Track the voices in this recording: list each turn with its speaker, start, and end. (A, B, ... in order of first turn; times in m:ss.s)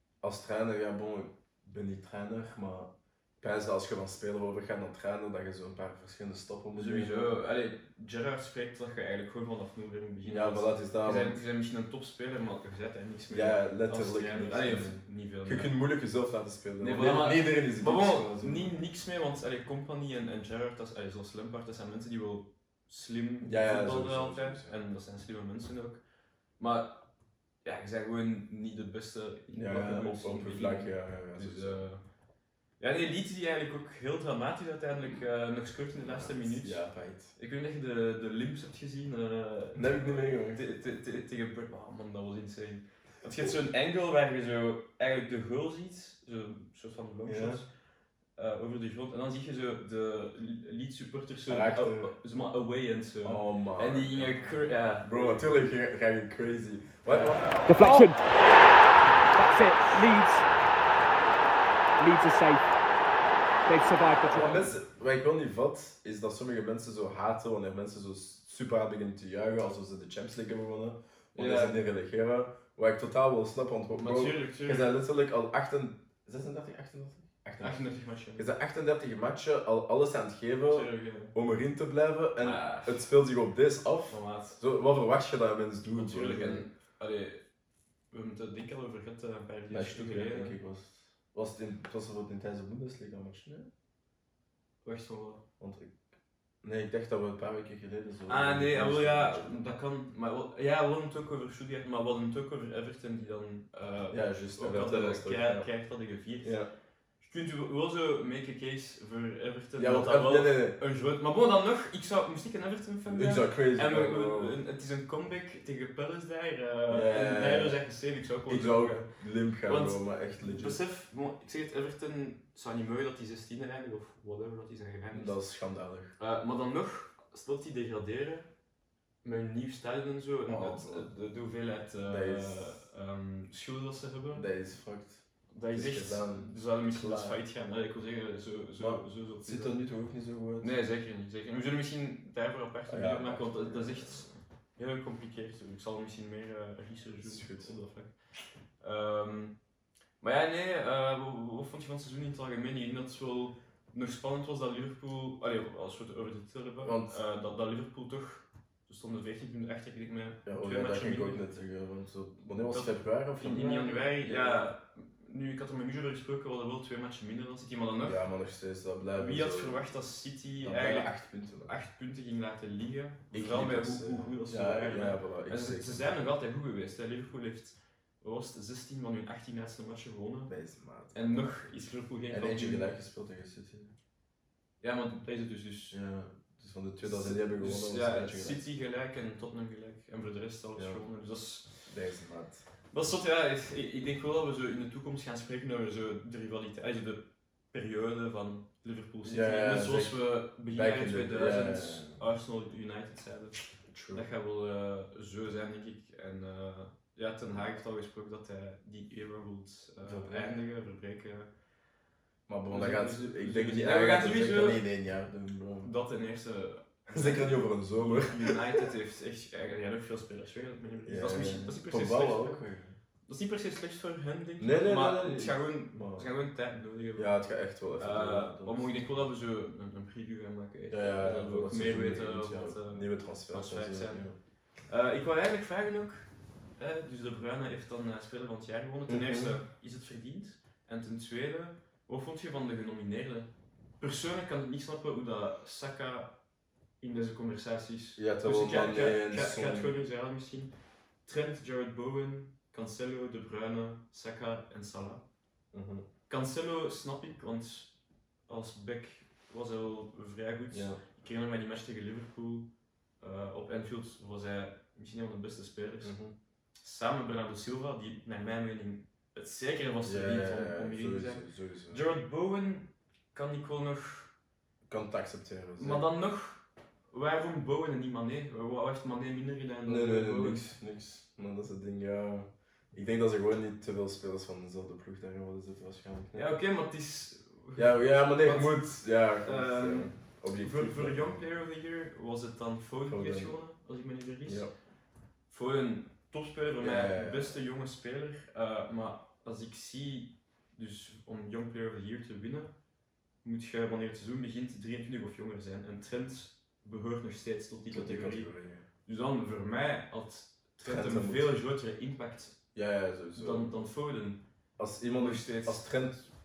0:00.2-0:07.3 A
0:06.7-0:15.7 B
0:10.2-0:11.4 A
0:13.3-0:18.7 A
0:16.8-0:26.0 B
0:23.4-0:24.8 A
0:26.6-0:27.0 B
0:27.6-0:32.0 B
0:29.5-0:31.8 A
0:32.8-0:47.7 B
0:36.0-0:37.3 A
0:39.7-0:40.6 A
0:47.2-0:47.6 A
0:48.4-0:55.5 B
0:51.5-0:52.1 A
0:53.2-0:54.5 A
0:55.0-0:58.0 A
0:57.1-0:57.7 B
0:57.7-0:58.2 C
0:59.3-1:00.4 C
1:02.0-1:02.7 C
1:03.6-1:04.7 C
1:04.3-1:17.8 A
1:11.4-1:11.8 B
1:14.0-1:14.9 B
1:17.6-1:18.5 B
1:18.4-1:26.6 A
1:20.7-1:21.3 B
1:22.4-1:23.0 B
1:24.1-1:24.6 B
1:25.9-1:27.4 B
1:28.1-1:30.6 B
1:29.7-1:33.7 A
1:34.8-1:35.4 B
1:35.6-1:35.9 A
1:36.6-1:39.7 A
1:38.3-1:46.6 B
1:44.1-1:45.7 A
1:46.4-1:46.7 A
1:47.2-1:59.1 B
1:49.8-1:50.8 A
1:53.1-1:54.6 A
1:56.9-1:57.8 A
1:58.5-2:00.8 A
1:59.7-2:05.4 B
2:05.1-2:06.1 A
2:06.2-2:08.5 B
2:09.2-2:14.4 B
2:10.5-2:11.1 A
2:12.0-2:12.7 A
2:14.3-2:17.4 A
2:15.5-2:19.8 B
2:18.8-2:20.7 A
2:20.6-2:28.1 B
2:22.8-2:24.3 A
2:27.2-2:27.7 A
2:28.8-2:29.6 B
2:30.2-2:41.4 B
2:36.8-2:37.2 A
2:40.4-2:44.7 A
2:42.7-2:48.2 B
2:48.0-2:49.9 A
2:49.2-3:00.5 B
2:50.6-2:51.7 A
2:53.3-2:56.1 A
3:00.5-3:01.4 A
3:01.1-3:02.9 B
3:02.3-3:03.9 A
3:04.8-3:06.0 B
3:05.9-3:08.6 A
3:07.0-3:11.8 B
3:10.8-3:11.0 A
3:11.8-3:12.6 A
3:12.9-3:31.5 B
3:19.2-3:22.2 A
3:23.9-3:24.2 A
3:30.0-3:30.6 A
3:32.5-3:35.9 A
3:32.7-3:34.8 B
3:35.8-3:42.6 B
3:37.1-3:38.8 A
3:41.0-3:43.0 A
3:43.2-3:47.3 B
3:44.6-3:46.3 A
3:47.2-3:49.0 A
3:48.0-3:54.2 B
3:50.9-3:54.3 A
3:54.9-4:06.3 B
3:59.1-3:59.6 A
4:07.0-4:10.7 B
4:08.2-4:09.9 A
4:11.2-4:15.2 B
4:15.7-4:16.0 A
4:16.3-4:17.9 B
4:18.5-4:22.7 B
4:20.7-4:21.0 A
4:23.2-4:26.1 B
4:26.0-4:26.3 A
4:26.8-4:34.3 B
4:30.0-4:32.0 A
4:34.9-4:36.0 A
4:35.8-4:40.6 B
4:39.8-4:46.5 A
4:46.3-4:48.8 B
4:47.8-4:51.4 A
4:49.4-4:54.6 B
4:53.0-4:53.6 A
4:54.4-4:54.7 A
4:55.5-5:02.7 B
4:56.8-4:57.6 A
5:03.4-5:08.5 B
5:07.9-5:08.8 A
5:09.0-5:12.6 B
5:10.8-5:11.5 A
5:12.7-5:13.7 A
5:13.3-5:14.4 B
5:14.8-5:16.3 A
5:15.2-5:15.8 B